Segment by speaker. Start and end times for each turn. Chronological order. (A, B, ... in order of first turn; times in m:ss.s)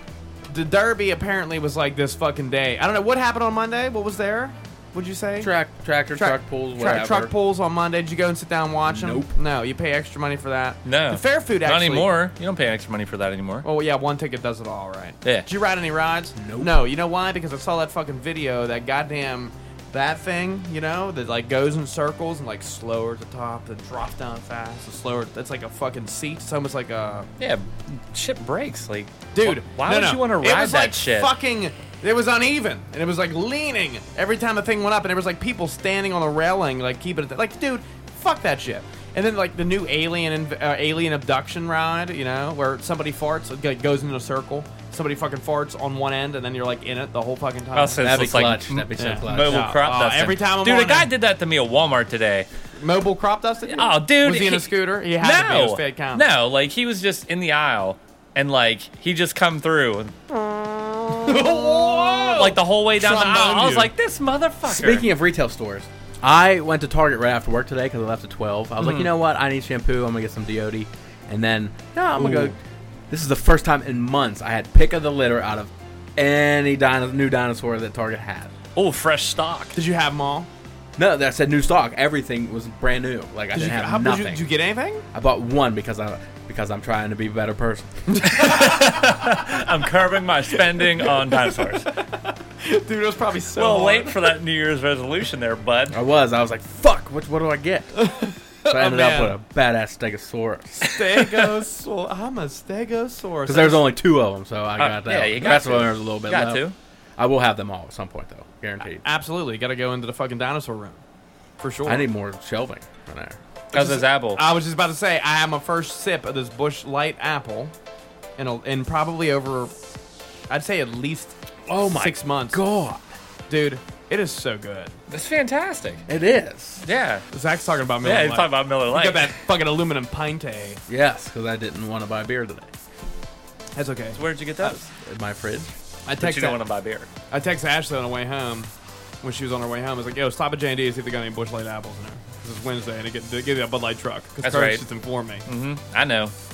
0:00.5-0:05.5 A
0:05.4-0:07.3 B
0:06.1-0:12.1 A
0:08.8-0:09.3 B
0:10.8-0:13.6 C
0:13.6-0:27.3 A
0:16.4-0:16.8 B
0:27.4-0:31.3 C
0:29.3-0:48.1 A
0:47.7-0:52.5 C
0:48.0-0:49.8 B
0:49.0-0:51.1 A
0:52.8-0:56.2 A
0:53.7-1:00.2 C
1:00.3-1:03.9 A
1:01.2-1:05.0 C
1:04.6-1:12.6 B
1:08.8-1:09.1 C
1:12.0-1:12.5 A
1:13.1-1:18.5 B
1:18.7-1:19.8 C
1:19.7-1:20.5 A
1:21.0-1:24.5 B
1:23.5-1:25.0 A
1:25.1-1:28.2 B
1:28.1-1:29.4 A
1:28.2-1:31.9 C
1:30.7-1:34.3 A
1:33.6-1:36.0 C
1:35.9-1:38.1 B
1:37.9-1:39.4 A
1:38.6-1:40.9 B
1:40.8-1:43.9 A
1:41.1-1:41.5 C
1:43.4-1:49.0 B
1:44.8-1:46.7 C
1:48.9-1:51.0 A
1:51.6-1:52.1 A
1:51.8-1:53.4 B
1:53.7-1:54.4 C
1:53.7-1:57.7 A
1:58.4-1:59.7 A
2:00.5-2:02.6 A
2:01.7-2:03.0 B
2:03.5-2:04.9 A
2:05.1-2:06.0 C
2:06.1-2:06.8 B
2:06.8-2:07.2 C
2:07.3-2:10.8 A
2:08.0-2:09.4 C
2:10.9-2:12.7 B
2:13.8-2:14.8 A
2:14.1-2:14.9 C
2:15.0-2:15.7 B
2:16.0-2:16.6 A
2:16.2-2:17.1 C
2:17.3-2:18.7 A
2:19.2-2:25.4 A
2:24.4-2:24.8 C
2:25.4-2:26.3 C